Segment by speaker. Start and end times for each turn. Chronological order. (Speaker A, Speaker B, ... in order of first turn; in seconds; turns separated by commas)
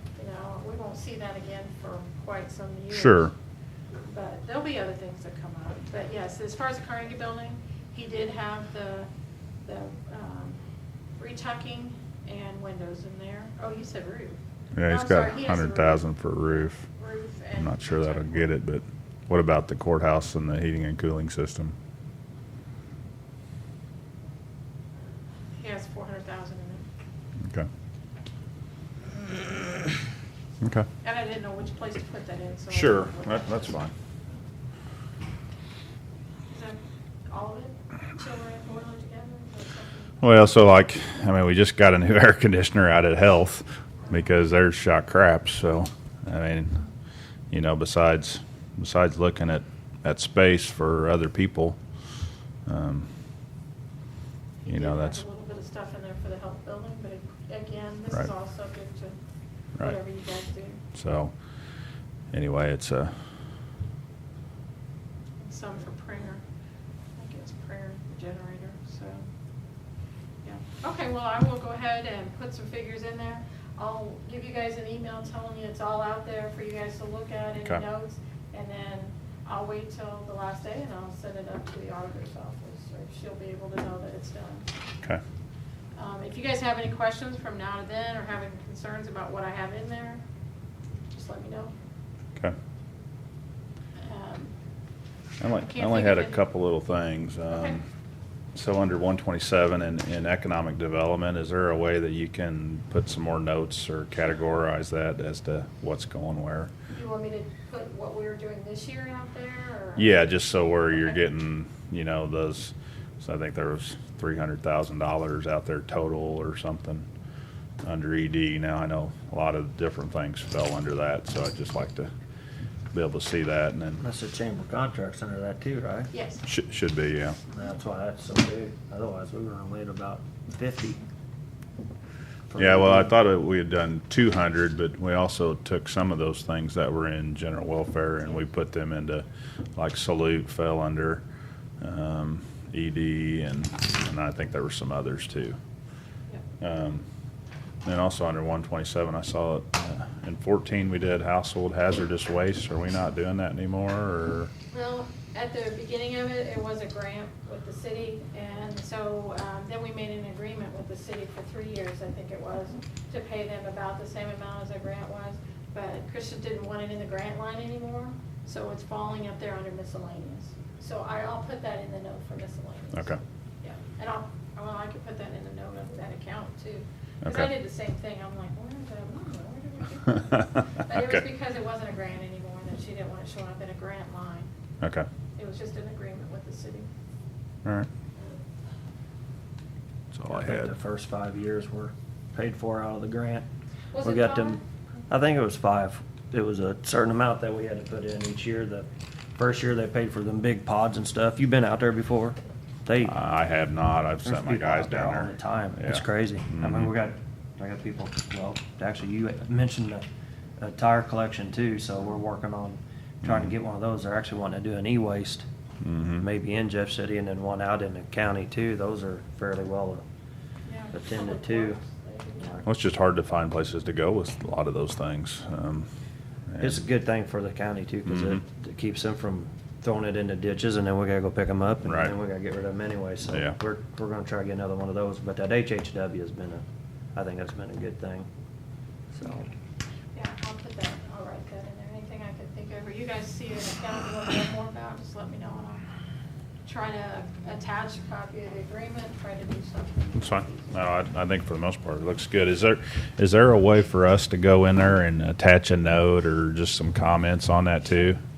Speaker A: 0.2-3.3, Speaker B: 2.9-3.3, Speaker A: 4.1-9.1, Speaker A: 9.7-10.6, Speaker A: 11.2-18.5, Speaker B: 14.8-16.9, Speaker B: 17.6-21.7, Speaker A: 25.6-26.8, Speaker B: 30.6-30.9, Speaker A: 31.0-33.8, Speaker B: 32.7-33.9, Speaker A: 36.5-40.2, Speaker B: 40.2-46.8, Speaker B: 47.5-51.9, Speaker B: 52.6-53.1, Speaker A: 54.6-59.2, Speaker B: 54.7-55.2, Speaker A: 59.8-60.8, Speaker B: 60.9-61.4, Speaker B: 62.3-63.1, Speaker A: 65.4-66.4, Speaker A: 67.2-69.2, Speaker A: 70.4-84.7, Speaker A: 86.0-90.2, Speaker A: 91.1-91.7, Speaker A: 94.0-94.5, Speaker B: 95.4-97.8, Speaker A: 95.6-96.4, Speaker A: 97.5-97.8, Speaker B: 98.5-106.7, Speaker A: 106.9-111.2, Speaker B: 110.0-117.0, Speaker B: 117.8-122.1, Speaker B: 122.9-124.0, Speaker C: 124.0-126.1, Speaker A: 126.1-126.4, Speaker B: 126.4-127.4, Speaker C: 127.5-131.0, Speaker C: 132.5-133.1, Speaker B: 132.6-139.2, Speaker B: 139.8-141.2, Speaker B: 141.8-145.6, Speaker B: 146.6-147.0, Speaker B: 147.8-154.5, Speaker A: 154.7-184.5, Speaker B: 177.2-177.5, Speaker B: 180.8-181.2, Speaker B: 184.8-185.1, Speaker A: 185.4-186.9, Speaker B: 190.1-190.7, Speaker C: 190.3-193.5, Speaker A: 193.9-194.6, Speaker C: 194.0-203.2, Speaker B: 203.0-206.9, Speaker C: 204.2-210.0, Speaker C: 210.6-215.5, Speaker B: 213.2-213.5, Speaker B: 215.8-216.2, Speaker C: 216.2-220.0, Speaker A: 220.7-222.6, Speaker C: 220.9-221.8, Speaker B: 222.7-225.9, Speaker B: 226.5-226.8, Speaker C: 226.6-236.6, Speaker B: 228.1-228.4, Speaker B: 231.8-232.1, Speaker C: 237.2-238.3, Speaker C: 239.1-239.5, Speaker A: 240.2-245.8, Speaker A: 246.7-250.8, Speaker B: 250.2-258.2